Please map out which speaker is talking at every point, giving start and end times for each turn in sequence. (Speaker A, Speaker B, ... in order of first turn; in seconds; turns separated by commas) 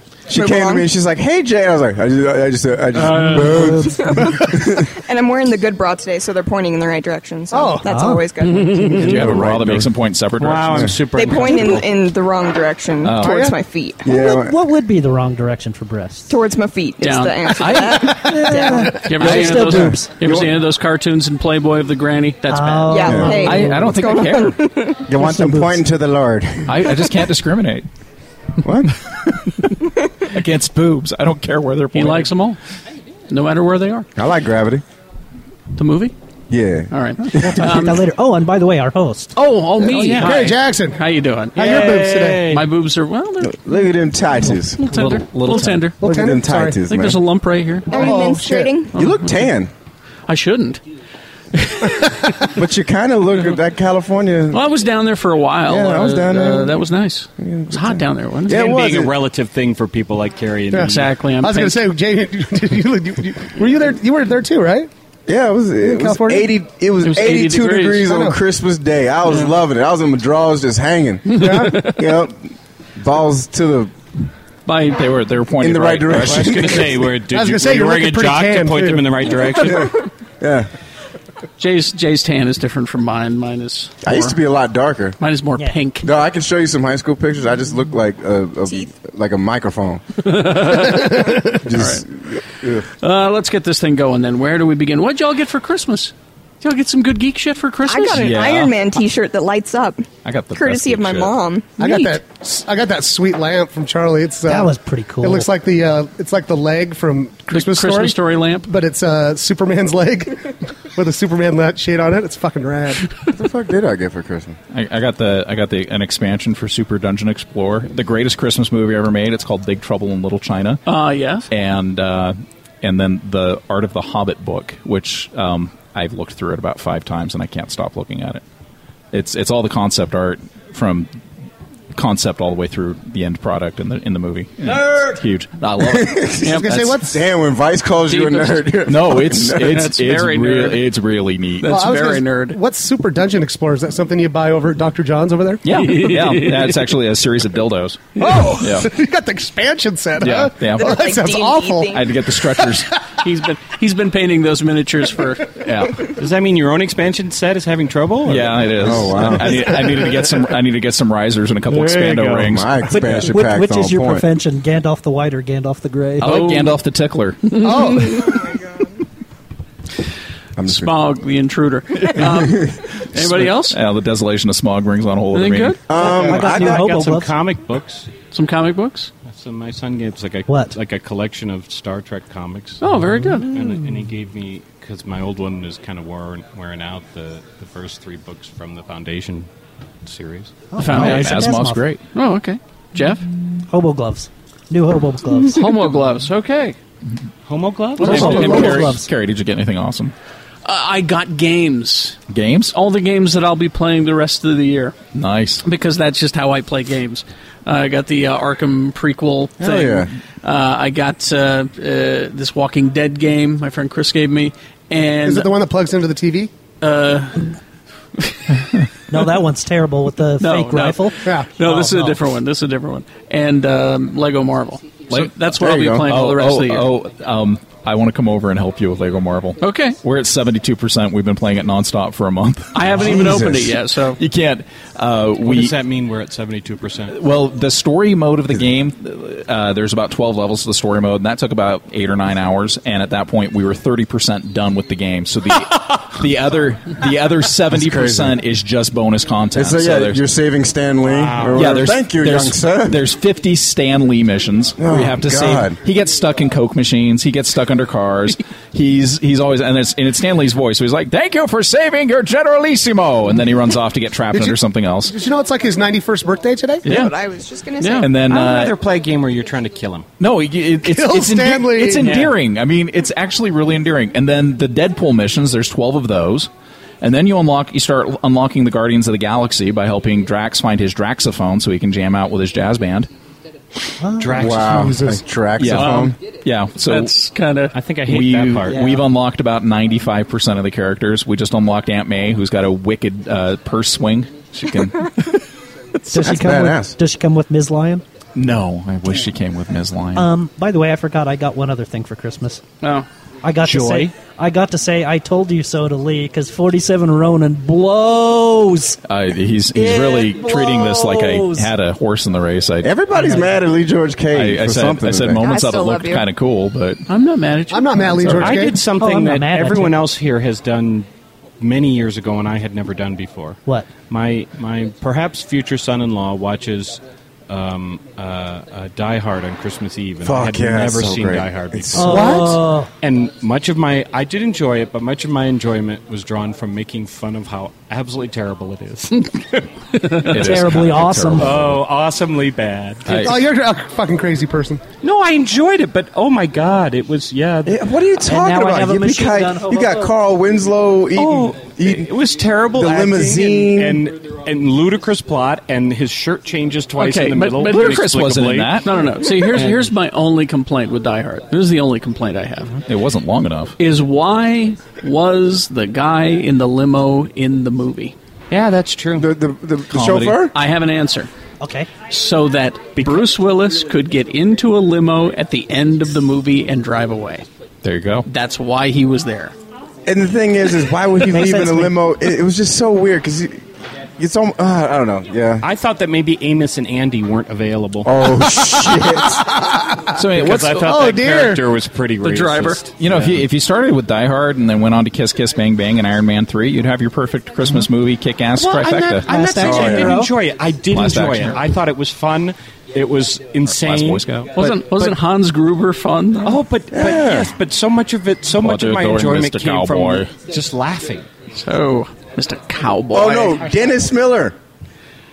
Speaker A: 0.3-4.9, Speaker B: 0.3-0.9, Speaker B: 3.4-9.0, Speaker C: 7.5-8.1, Speaker D: 7.9-8.3, Speaker E: 8.6-8.9, Speaker F: 9.0-10.9, Speaker A: 9.1-9.9, Speaker G: 10.4-11.9, Speaker B: 11.1-14.2, Speaker F: 13.0-13.5, Speaker C: 13.2-13.6, Speaker A: 14.1-14.6, Speaker D: 14.1-16.3, Speaker B: 16.3-19.1, Speaker E: 17.0-18.2, Speaker C: 18.1-18.4, Speaker D: 18.2-20.1, Speaker E: 18.9-23.2, Speaker F: 19.2-19.9, Speaker A: 19.6-20.5, Speaker D: 22.5-23.8, Speaker B: 22.9-25.1, Speaker A: 23.1-23.6, Speaker F: 23.4-24.6, Speaker A: 25.1-27.0, Speaker D: 25.1-25.9, Speaker F: 26.7-27.9, Speaker A: 28.6-28.9, Speaker F: 30.3-32.3, Speaker E: 31.9-32.6, Speaker E: 33.3-34.1, Speaker A: 34.2-34.8, Speaker E: 35.8-36.1, Speaker A: 36.5-37.6, Speaker E: 36.9-38.0, Speaker D: 37.3-39.4, Speaker E: 39.4-41.6, Speaker C: 39.8-41.0, Speaker G: 39.9-40.6, Speaker G: 41.5-42.7, Speaker C: 41.6-42.5, Speaker E: 42.5-43.6, Speaker A: 43.4-44.8, Speaker E: 44.8-46.0, Speaker F: 44.9-45.9, Speaker C: 46.0-46.8, Speaker A: 46.0-47.2, Speaker E: 46.9-48.0, Speaker B: 47.9-49.0, Speaker C: 47.9-48.7, Speaker A: 48.9-49.7, Speaker E: 50.3-50.8, Speaker E: 51.5-52.2, Speaker A: 52.6-54.6, Speaker E: 54.5-58.8, Speaker A: 55.7-56.8, Speaker A: 57.4-59.1, Speaker G: 58.5-61.1, Speaker C: 60.7-64.9, Speaker E: 60.8-61.8, Speaker A: 65.3-72.4, Speaker C: 65.8-66.5, Speaker E: 67.0-68.1, Speaker C: 68.1-68.4, Speaker C: 71.3-71.9, Speaker A: 73.0-73.9, Speaker E: 74.7-75.0, Speaker F: 74.8-76.8, Speaker A: 75.6-77.0, Speaker G: 76.1-79.9, Speaker C: 77.3-79.1, Speaker A: 79.7-80.7, Speaker E: 81.6-84.4, Speaker A: 84.0-85.2, Speaker E: 85.2-86.1, Speaker A: 86.0-90.0, Speaker E: 90.2-92.0, Speaker A: 91.5-92.9, Speaker E: 93.0-98.3, Speaker B: 97.9-102.2, Speaker F: 98.1-98.8, Speaker F: 100.2-101.3, Speaker C: 101.8-113.1, Speaker D: 104.5-105.5, Speaker E: 107.5-108.7, Speaker A: 113.3-114.6, Speaker F: 114.7-120.8, Speaker E: 120.9-121.5, Speaker F: 121.5-128.4, Speaker F: 129.1-131.1, Speaker F: 131.9-137.0, Speaker A: 135.9-139.8, Speaker E: 136.4-136.7, Speaker C: 136.4-137.2, Speaker E: 138.1-138.8, Speaker F: 138.9-141.8, Speaker E: 139.6-140.8, Speaker E: 141.6-142.6, Speaker C: 141.7-145.6, Speaker F: 145.6-148.9, Speaker E: 145.7-146.8, Speaker C: 148.2-152.8, Speaker F: 150.2-151.0, Speaker B: 150.7-152.1, Speaker F: 151.9-152.9, Speaker E: 153.2-155.5, Speaker F: 155.6-156.1, Speaker G: 156.2-159.3, Speaker F: 158.2-163.1, Speaker A: 158.8-159.7, Speaker G: 161.7-162.6, Speaker A: 162.5-164.3, Speaker D: 162.8-166.5, Speaker F: 166.2-167.5, Speaker E: 166.2-166.8, Speaker C: 167.6-168.3, Speaker E: 167.6-168.3, Speaker B: 168.2-168.7, Speaker A: 170.6-170.9, Speaker E: 170.6-173.8, Speaker F: 173.2-175.9, Speaker E: 175.3-175.9, Speaker A: 175.9-176.9, Speaker G: 175.9-178.1, Speaker D: 176.0-177.4, Speaker E: 178.3-179.1, Speaker G: 179.2-189.5, Speaker D: 180.5-180.8, Speaker E: 182.8-183.6, Speaker D: 183.0-183.4, Speaker G: 190.1-190.7, Speaker D: 190.7-191.8, Speaker E: 190.8-191.5, Speaker F: 190.8-192.0, Speaker E: 192.1-193.3, Speaker D: 193.7-195.7, Speaker E: 195.5-196.8, Speaker G: 197.5-199.0, Speaker D: 198.0-199.1, Speaker F: 198.0-200.1, Speaker C: 198.1-198.8, Speaker E: 200.7-202.2, Speaker F: 202.3-202.7, Speaker E: 202.7-205.0, Speaker F: 205.1-205.6, Speaker E: 205.6-215.5, Speaker A: 209.6-210.1, Speaker C: 215.2-216.5, Speaker E: 216.8-217.5, Speaker D: 219.1-221.3, Speaker E: 220.4-226.9, Speaker C: 221.2-222.1, Speaker A: 225.5-226.1, Speaker F: 226.0-233.4, Speaker E: 229.6-230.0, Speaker E: 232.7-234.2, Speaker A: 232.9-233.8, Speaker F: 234.2-235.8, Speaker G: 235.4-237.2, Speaker F: 237.1-250.2, Speaker A: 247.7-248.4, Speaker A: 249.6-253.0, Speaker G: 251.0-251.8, Speaker F: 251.5-265.1, Speaker A: 254.8-255.8, Speaker C: 264.3-266.9, Speaker B: 266.9-268.2, Speaker E: 267.8-268.1, Speaker F: 268.0-268.8, Speaker G: 268.2-270.1, Speaker F: 270.2-276.5, Speaker C: 270.9-272.2, Speaker G: 272.0-272.4, Speaker F: 277.0-283.1, Speaker D: 284.0-284.4, Speaker G: 284.2-285.1, Speaker A: 284.4-286.2, Speaker C: 284.5-285.2, Speaker F: 285.6-287.1, Speaker E: 285.7-286.1, Speaker E: 286.9-287.8, Speaker G: 287.7-288.9, Speaker F: 288.1-295.4, Speaker A: 296.1-297.0, Speaker D: 296.1-298.0, Speaker F: 298.4-300.3, Speaker D: 300.1-302.6, Speaker E: 302.8-303.1, Speaker D: 303.4-309.0, Speaker G: 303.6-304.1, Speaker F: 309.1-313.0, Speaker D: 309.7-311.7, Speaker A: 312.8-315.4, Speaker D: 313.1-313.5, Speaker F: 314.3-317.0, Speaker B: 315.4-316.3, Speaker E: 317.1-318.6, Speaker C: 317.7-318.9, Speaker G: 318.4-321.1, Speaker D: 318.9-320.1, Speaker G: 321.6-339.7, Speaker D: 323.6-323.9, Speaker A: 330.2-332.3, Speaker D: 331.9-332.9, Speaker C: 332.0-332.6, Speaker E: 340.0-340.3, Speaker F: 340.2-341.9, Speaker D: 340.3-341.6, Speaker G: 341.4-343.2, Speaker F: 343.1-343.5, Speaker C: 343.1-344.8, Speaker G: 345.0-347.8, Speaker A: 347.7-352.1, Speaker D: 348.2-350.2, Speaker G: 351.1-358.8, Speaker A: 352.8-354.0, Speaker E: 357.0-358.0, Speaker F: 357.6-358.9, Speaker E: 358.8-362.8, Speaker G: 359.4-359.9, Speaker F: 362.9-363.8, Speaker E: 363.8-368.1, Speaker G: 368.5-369.3, Speaker A: 369.2-370.5, Speaker F: 369.9-370.5, Speaker E: 370.5-371.3, Speaker D: 371.6-372.0, Speaker E: 372.1-377.5, Speaker G: 373.0-373.3, Speaker F: 377.8-378.3, Speaker E: 378.3-379.6, Speaker A: 380.1-383.6, Speaker D: 381.4-381.9, Speaker A: 384.2-385.7, Speaker G: 385.6-388.1, Speaker A: 388.0-389.4, Speaker C: 389.2-390.2, Speaker F: 390.1-390.9, Speaker G: 390.3-393.4, Speaker C: 390.8-391.7, Speaker E: 392.2-392.8, Speaker F: 393.0-399.3, Speaker G: 398.5-405.1, Speaker D: 399.2-400.4, Speaker A: 399.6-400.2, Speaker F: 400.9-401.6, Speaker F: 403.6-404.6, Speaker E: 404.6-406.6, Speaker G: 406.4-411.3, Speaker A: 406.9-407.5, Speaker F: 408.6-410.3, Speaker E: 411.6-413.7, Speaker A: 413.1-414.6